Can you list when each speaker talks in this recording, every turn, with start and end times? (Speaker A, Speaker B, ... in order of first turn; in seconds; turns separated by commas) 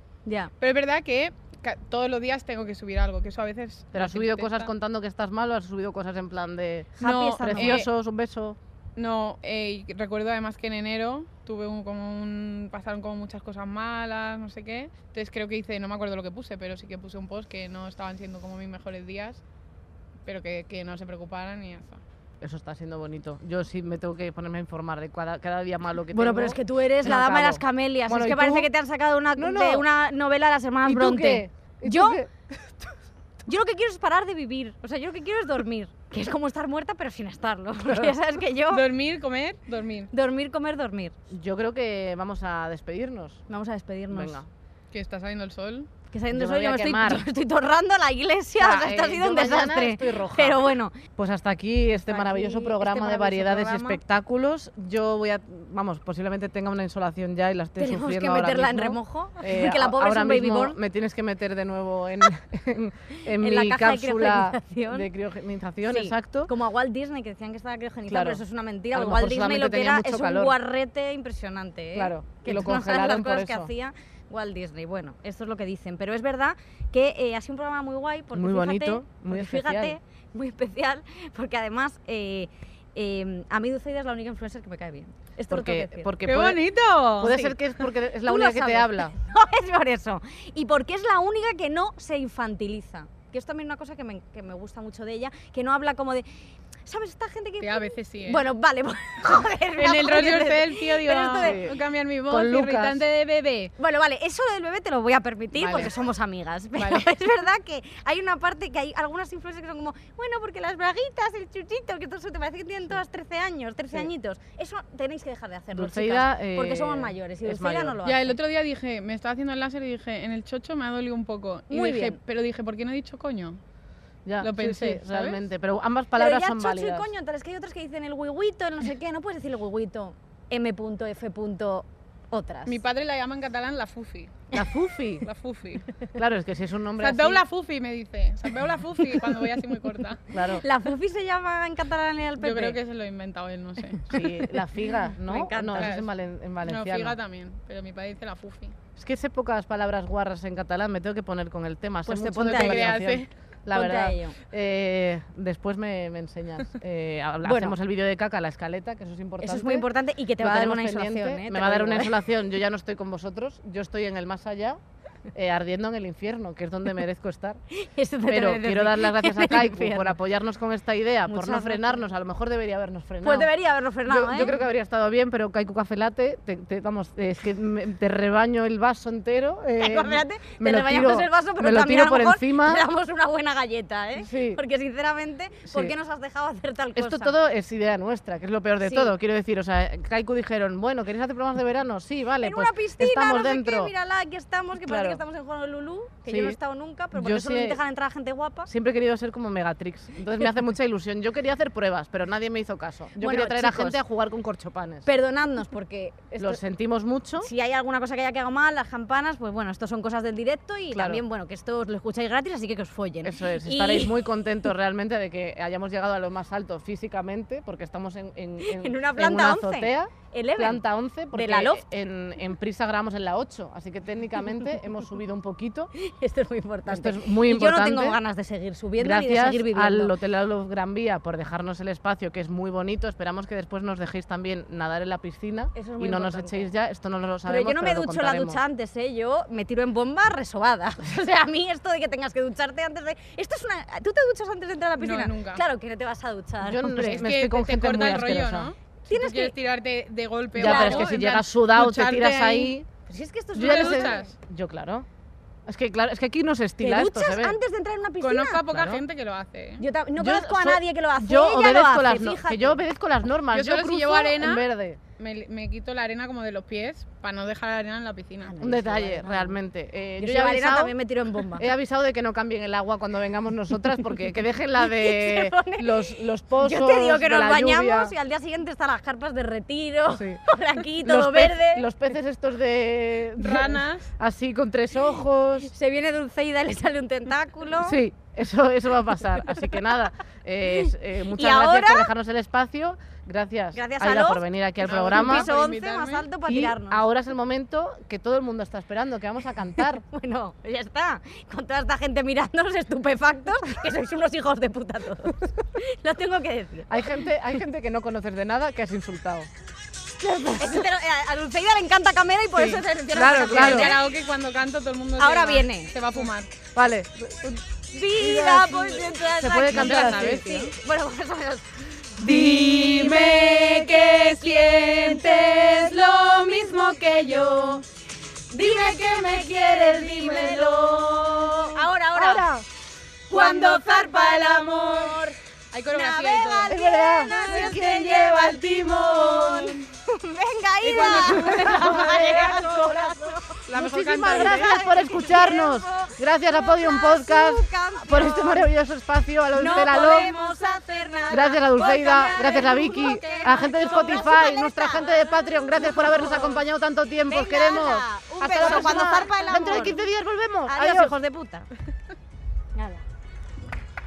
Speaker A: 0.3-0.5, Speaker B: 0.6-4.7, Speaker C: 3.9-8.6, Speaker A: 7.0-7.8, Speaker B: 7.0-7.9, Speaker B: 8.9-19.4, Speaker B: 20.3-22.0, Speaker C: 22.4-28.7, Speaker A: 26.1-32.2, Speaker C: 29.3-29.9, Speaker C: 30.8-32.9, Speaker A: 33.5-38.8, Speaker C: 37.9-38.1, Speaker B: 38.7-40.1, Speaker A: 40.1-41.1, Speaker C: 41.3-43.4, Speaker A: 43.5-44.4, Speaker C: 44.1-44.5, Speaker B: 44.9-45.9, Speaker A: 46.1-51.0, Speaker C: 46.3-47.3, Speaker C: 48.6-50.6, Speaker C: 51.2-66.5, Speaker A: 52.1-54.0, Speaker A: 57.8-60.8, Speaker A: 63.4-65.1, Speaker A: 65.8-86.1, Speaker C: 68.1-68.4, Speaker C: 68.9-70.5, Speaker C: 72.0-73.7, Speaker C: 78.3-80.0, Speaker C: 85.5-86.6, Speaker B: 86.2-87.4, Speaker C: 87.2-89.1, Speaker A: 88.2-96.3, Speaker A: 96.9-101.6, Speaker B: 97.6-98.4, Speaker B: 99.8-103.7, Speaker C: 101.4-103.0, Speaker A: 103.8-118.4, Speaker B: 105.5-106.0, Speaker B: 106.7-107.1, Speaker C: 115.7-118.0, Speaker B: 118.0-123.6, Speaker A: 121.7-122.2, Speaker C: 124.3-127.1, Speaker B: 124.4-125.4, Speaker A: 126.2-132.8, Speaker B: 132.7-134.6, Speaker C: 134.5-135.3, Speaker B: 135.2-135.9, Speaker C: 136.1-137.4, Speaker B: 137.0-140.2, Speaker C: 140.3-140.6, Speaker A: 140.4-142.8, Speaker B: 142.4-144.2, Speaker C: 144.1-147.2, Speaker A: 145.2-145.9, Speaker B: 145.8-146.1, Speaker B: 146.6-148.7, Speaker C: 148.9-159.9, Speaker A: 152.1-153.0, Speaker B: 152.4-153.3, Speaker A: 153.7-154.4, Speaker A: 157.4-157.8, Speaker A: 159.4-162.2, Speaker C: 160.4-164.8, Speaker C: 165.3-167.6, Speaker A: 167.7-170.2, Speaker C: 168.3-173.5, Speaker A: 171.3-172.0, Speaker A: 173.2-174.6, Speaker C: 174.0-182.8, Speaker A: 179.8-187.3, Speaker C: 184.2-184.6, Speaker C: 185.7-185.9, Speaker C: 186.9-193.9, Speaker A: 188.8-189.1, Speaker A: 192.4-198.7, Speaker C: 194.8-195.2, Speaker C: 196.3-196.6, Speaker C: 197.1-197.8, Speaker C: 198.7-205.1, Speaker A: 203.2-204.0, Speaker A: 205.1-206.6, Speaker C: 206.3-207.5, Speaker A: 207.4-214.2, Speaker C: 210.9-211.2, Speaker C: 213.2-225.9, Speaker A: 218.6-221.8, Speaker A: 226.0-230.1, Speaker C: 226.9-228.2, Speaker C: 229.0-238.6, Speaker A: 235.7-236.7, Speaker A: 237.4-247.3, Speaker B: 245.0-245.6, Speaker C: 246.6-248.7, Speaker B: 247.0-252.8, Speaker A: 249.1-249.5, Speaker C: 250.6-252.9, Speaker A: 250.6-251.1, Speaker A: 253.1-254.3, Speaker C: 253.6-255.1, Speaker B: 253.6-254.3, Speaker C: 255.7-257.6, Speaker A: 256.8-258.6, Speaker B: 258.2-259.8, Speaker C: 258.7-259.0, Speaker A: 259.8-262.8, Speaker C: 260.2-265.0, Speaker B: 263.5-268.5, Speaker A: 268.4-269.6, Speaker C: 268.6-270.9, Speaker A: 270.2-271.7, Speaker C: 271.5-278.1, Speaker A: 274.8-281.9, Speaker C: 280.2-280.4, Speaker C: 281.0-285.7, Speaker B: 283.4-284.1, Speaker A: 285.6-288.0, Speaker C: 287.8-295.5, Speaker A: 290.7-292.1, Speaker A: 293.7-297.0, Speaker B: 294.8-296.3, Speaker C: 296.4-300.0, Speaker A: 300.0-307.0, Speaker C: 306.9-309.5, Speaker C: 310.2-310.8, Speaker A: 310.6-314.0, Speaker C: 312.5-314.0, Speaker B: 313.4-316.5, Speaker A: 315.2-315.9, Speaker C: 316.7-320.4, Speaker A: 317.9-321.7, Speaker B: 319.7-320.7, Speaker B: 322.2-327.8, Speaker A: 322.4-327.5, Speaker A: 328.5-332.5, Speaker B: 328.6-331.8, Speaker C: 332.1-332.6, Speaker A: 333.3-335.4, Speaker B: 333.3-335.2, Speaker B: 335.7-339.8, Speaker A: 335.9-343.6, Speaker C: 336.7-339.1, Speaker B: 340.8-344.9, Speaker C: 340.9-342.3, Speaker C: 343.7-350.4, Speaker A: 344.3-348.7, Speaker A: 349.6-356.6, Speaker C: 351.3-361.2, Speaker A: 357.3-360.0, Speaker B: 358.6-359.1, Speaker A: 360.7-361.7, Speaker A: 362.8-363.0